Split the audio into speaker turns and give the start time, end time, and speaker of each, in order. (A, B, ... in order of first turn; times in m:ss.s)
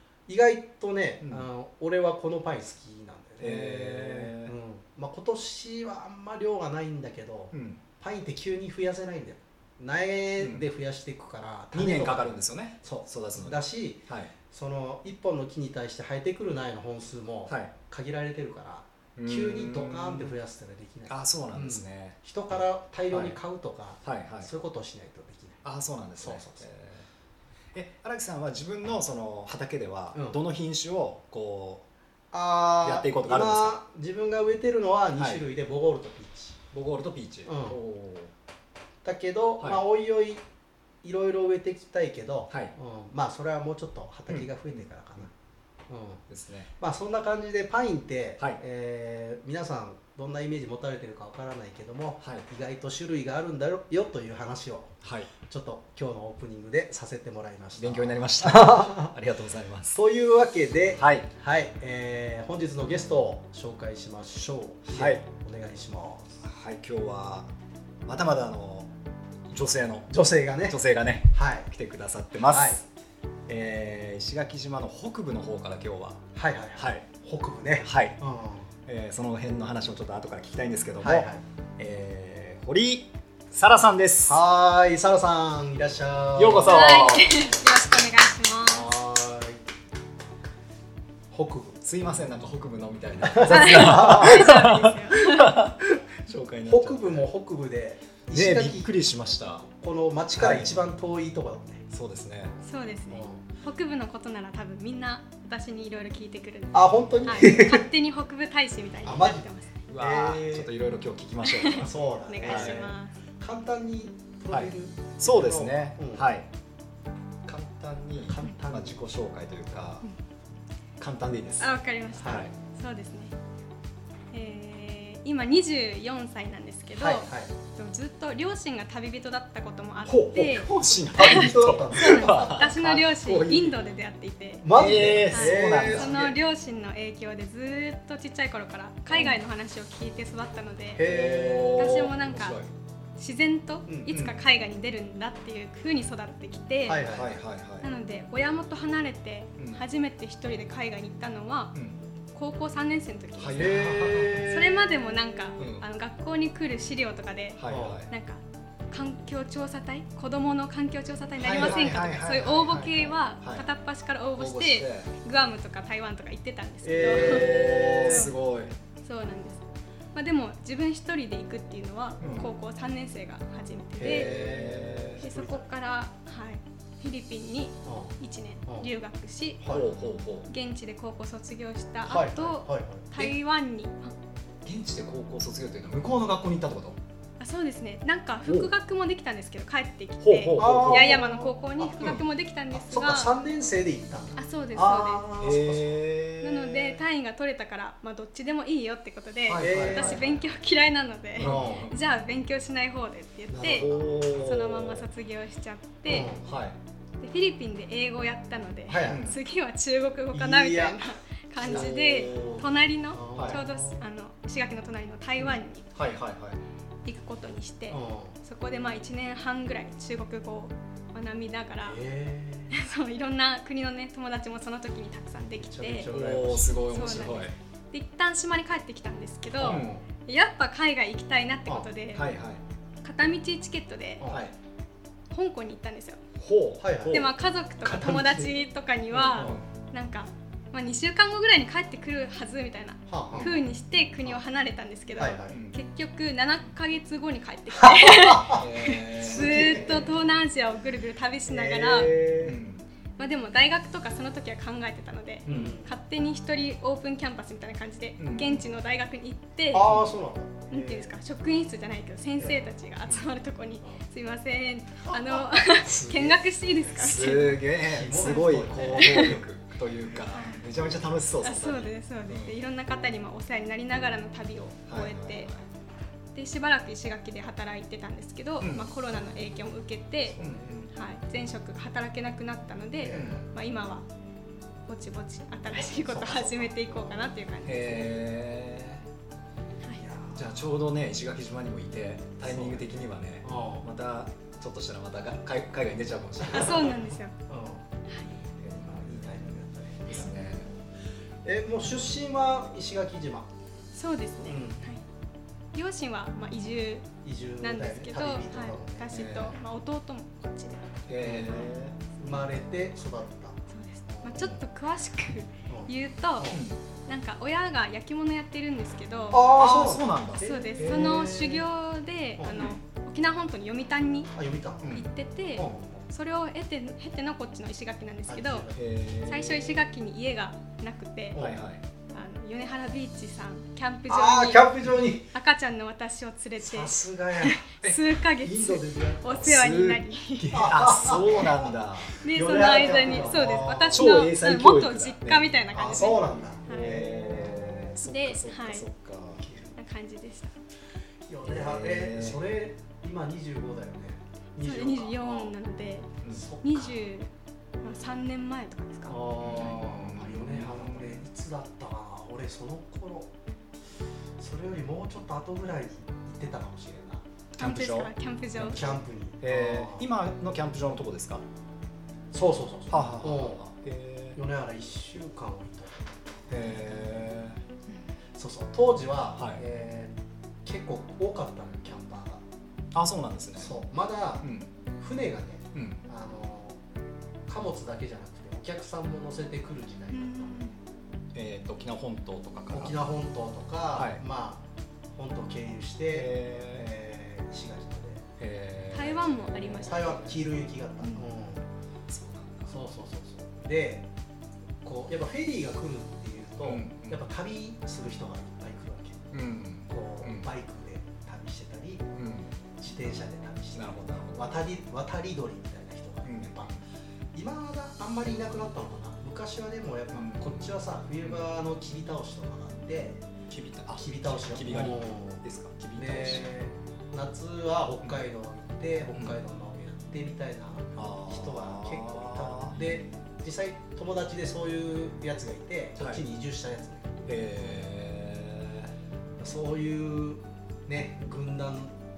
0:00.3-0:25.6 A
0:03.4-0:04.5 B
0:07.5-0:07.8 B
0:11.7-0:13.6 B
0:17.5-0:17.7 B
0:19.2-0:20.3 B
0:21.1-0:22.2 B
0:23.1-0:23.4 B
0:24.0-0:24.5 B
0:25.6-0:27.1 B
0:26.2-0:26.6 A
0:27.7-0:31.8 B
0:32.3-0:36.6 A
0:32.8-0:33.8 B
0:35.2-0:35.4 B
0:36.7-0:38.3 B
0:37.5-0:37.8 A
0:39.0-0:40.4 A
0:41.0-0:45.3 A
0:45.9-0:46.2 A
0:46.3-0:46.7 B
0:46.8-0:55.0 A
0:55.0-0:55.3 B
0:55.5-0:59.1 A
0:57.8-1:00.0 B
0:59.9-1:06.3 A
1:01.0-1:01.3 B
1:04.9-1:05.2 B
1:06.4-1:07.5 B
1:08.0-1:08.9 B
1:09.5-1:10.1 B
1:10.1-1:10.8 A
1:10.7-1:12.8 B
1:11.3-1:11.7 A
1:12.5-1:12.8 A
1:13.5-1:16.2 B
1:16.4-1:18.7 A
1:16.8-1:17.1 B
1:17.8-1:18.2 B
1:18.9-1:21.3 B
1:21.0-1:21.4 A
1:21.8-1:24.4 B
1:24.3-1:27.0 A
1:26.4-1:27.3 B
1:26.7-1:28.9 C
1:28.7-1:29.6 A
1:31.3-1:31.8 A
1:31.8-1:37.3 B
1:33.2-1:34.5 A
1:33.4-1:35.6 C
1:36.7-1:38.9 A
1:38.3-1:39.7 B
1:39.8-1:41.8 A
1:40.4-1:40.7 B
1:41.9-1:42.5 B
1:42.6-1:49.8 C
1:43.1-1:43.4 A
1:46.7-1:47.9 A
1:49.0-1:50.7 A
1:49.9-1:52.9 B
1:51.4-1:53.1 C
1:51.8-1:56.3 A
1:54.5-1:56.5 B
1:57.4-2:00.0 B
1:58.2-1:59.0 A
2:01.0-2:01.7 B
2:01.6-2:03.3 C
2:02.2-2:02.5 A
2:02.2-2:02.5 B
2:04.3-2:21.1 C
2:07.0-2:07.5 A
2:10.1-2:13.8 B
2:11.2-2:12.5 A
2:14.6-2:16.3 A
2:14.8-2:16.3 B
2:19.1-2:19.4 B
2:21.0-2:22.2 A
2:21.0-2:22.7 B
2:21.8-2:22.6 C
2:23.2-2:27.0 C
2:23.9-2:24.1 A
2:24.1-2:24.3 B
2:26.9-2:27.4 A
2:27.0-2:27.9 B
2:27.8-2:31.7 C
2:29.6-2:29.8 B
2:32.3-2:47.5 C
2:33.4-2:34.8 B
2:33.6-2:34.6 A
2:35.6-2:35.9 B
2:37.6-2:38.1 B
2:37.7-2:38.0 A
2:41.4-2:43.6 B
2:44.4-2:45.1 B
2:46.8-2:48.3 A
2:47.0-2:48.8 B
2:48.1-2:48.3 C
2:49.0-2:54.3 C
2:52.2-2:52.5 B
2:54.0-2:55.7 A
2:54.0-2:55.2 B
2:55.2-2:59.6 C
2:57.8-2:58.2 A
2:59.6-2:59.9 A
2:59.7-3:00.5 B
3:00.5-3:04.1 C
3:02.1-3:03.2 A
3:04.6-3:07.0 B
3:07.4-3:13.3 C
3:10.2-3:11.2 B
3:10.6-3:12.0 A
3:12.7-3:16.0 A
3:14.4-3:15.3 C
3:15.4-3:17.0 B
3:16.4-3:26.4 C
3:19.5-3:20.4 B
3:19.6-3:20.3 A
3:21.4-3:21.9 A
3:21.4-3:22.0 B
3:23.5-3:24.1 A
3:23.7-3:25.0 B
3:26.1-3:26.4 A
3:26.4-3:26.8 B
3:27.2-3:35.9 C
3:28.9-3:29.3 A
3:29.0-3:29.4 B
3:30.3-3:31.0 A
3:31.6-3:32.4 A
3:31.6-3:32.6 B
3:33.1-3:34.0 A
3:33.4-3:33.6 B
3:36.0-3:36.6 B
3:37.0-3:42.0 C
3:37.9-3:38.4 A
3:41.8-3:42.7 A
3:42.7-3:46.1 C
3:45.5-3:46.8 A
3:46.1-3:47.5 B
3:46.8-3:52.3 C
3:49.6-3:50.0 A
3:49.6-3:50.0 B
3:52.1-3:52.6 B
3:53.0-3:54.3 C
3:54.2-3:54.5 A
3:54.3-3:54.5 B
3:55.3-3:56.2 C
3:56.4-3:57.3 B
3:56.8-3:57.3 A
3:57.1-4:12.2 C
3:57.8-3:58.5 A
3:59.1-3:59.6 B
4:03.1-4:03.5 A
4:03.3-4:03.6 B
4:05.2-4:05.6 A
4:05.5-4:05.8 B
4:07.8-4:10.1 A
4:08.5-4:10.1 B
4:11.5-4:12.6 A
4:11.9-4:12.9 B
4:13.2-4:19.9 C
4:15.5-4:15.9 A
4:15.5-4:15.8 B
4:18.2-4:18.6 B
4:19.7-4:21.0 A
4:20.7-4:27.6 C
4:25.1-4:26.4 A
4:27.0-4:32.6 B
4:27.6-4:29.4 A
4:28.2-4:29.4 C
4:30.3-4:30.6 C
4:31.4-4:35.5 C
4:34.9-4:35.6 B
4:36.4-4:40.4 C
4:38.6-4:38.9 B
4:40.3-4:40.8 A
4:40.4-4:40.9 B
4:40.9-4:44.1 C
4:43.0-4:43.4 A
4:43.1-4:43.4 B
4:44.9-4:48.1 C
4:45.7-4:47.4 A
4:47.6-4:49.0 B
4:50.0-4:50.7 A
4:50.3-4:57.0 B
4:52.5-4:52.9 A
4:53.4-4:53.8 A
4:56.4-4:57.8 A
4:56.5-4:57.4 C
4:58.1-4:58.4 C
4:58.6-5:00.7 B
4:58.7-5:00.5 A
5:01.4-5:03.5 A
5:03.9-5:05.0 C
5:04.5-5:04.8 A
5:05.7-5:07.1 C
5:07.2-5:09.2 A
5:07.6-5:11.8 C
5:09.1-5:09.6 B
5:11.1-5:12.0 B
5:11.2-5:11.7 A
5:12.2-5:13.6 A
5:13.7-5:24.3 C
5:14.1-5:14.6 A
5:15.7-5:16.6 A
5:16.5-5:16.8 B
5:19.3-5:21.6 A
5:19.6-5:21.5 B
5:22.4-5:22.8 A
5:24.4-5:25.0 A
5:24.9-5:28.7 C
5:25.6-5:26.0 A
5:28.3-5:28.8 A
5:28.8-5:29.8 B
5:29.3-5:31.4 C
5:31.3-5:31.6 A
5:31.4-5:31.8 B
5:32.1-5:34.7 C
5:34.1-5:35.3 A
5:35.3-5:40.8 C
5:36.6-5:37.6 A
5:38.4-5:39.5 A
5:39.3-5:45.5 B
5:40.5-5:44.2 A
5:42.2-5:47.5 C
5:45.7-5:48.0 A
5:46.7-5:49.5 B
5:48.0-5:48.9 C
5:49.4-5:49.8 A
5:49.8-5:50.6 C
5:51.3-5:55.5 A
5:51.5-5:52.4 B
5:54.6-5:56.1 C
5:56.2-5:56.5 B
5:56.3-5:57.0 A
5:56.6-5:57.3 C
5:57.8-5:59.2 C
5:59.1-6:03.3 A
5:59.4-6:01.2 B
6:04.4-6:07.2 A
6:07.6-6:08.1 B
6:07.6-6:09.0 C
6:08.6-6:10.1 A
6:09.4-6:11.4 B
6:12.3-6:13.6 A
6:12.9-6:14.4 B
6:14.4-6:16.1 A
6:16.5-6:17.6 B
6:18.4-6:20.1 A
6:19.4-6:19.6 B
6:20.6-6:22.4 A
6:22.9-6:23.7 B
6:23.6-6:24.5 A
6:24.4-6:24.7 B
6:25.0-6:26.8 A
6:25.7-6:26.0 B
6:27.5-6:30.7 A
6:30.1-6:30.8 C
6:31.3-6:33.0 B
6:32.7-6:34.6 A
6:34.0-6:34.2 B
6:35.2-6:38.3 A
6:36.1-6:36.9 B
6:38.4-6:40.3 B
6:38.9-6:40.3 C
6:39.8-6:41.6 A
6:41.0-6:41.3 C
6:42.1-6:42.8 B
6:42.7-6:44.1 A
6:44.8-6:49.3 A
6:46.6-6:47.2 B
6:49.3-6:50.5 B
6:49.9-6:52.1 A
6:52.2-6:52.5 B
6:52.8-6:56.8 A
6:53.8-6:54.6 B
6:56.3-6:56.8 B
6:57.3-7:03.2 A
7:00.1-7:01.4 B
7:03.5-7:06.6 B
7:04.0-7:05.4 A
7:06.0-7:17.3 A
7:11.0-7:13.0 B
7:16.0-7:16.2 B
7:17.3-7:18.9 B
7:19.4-7:21.9 A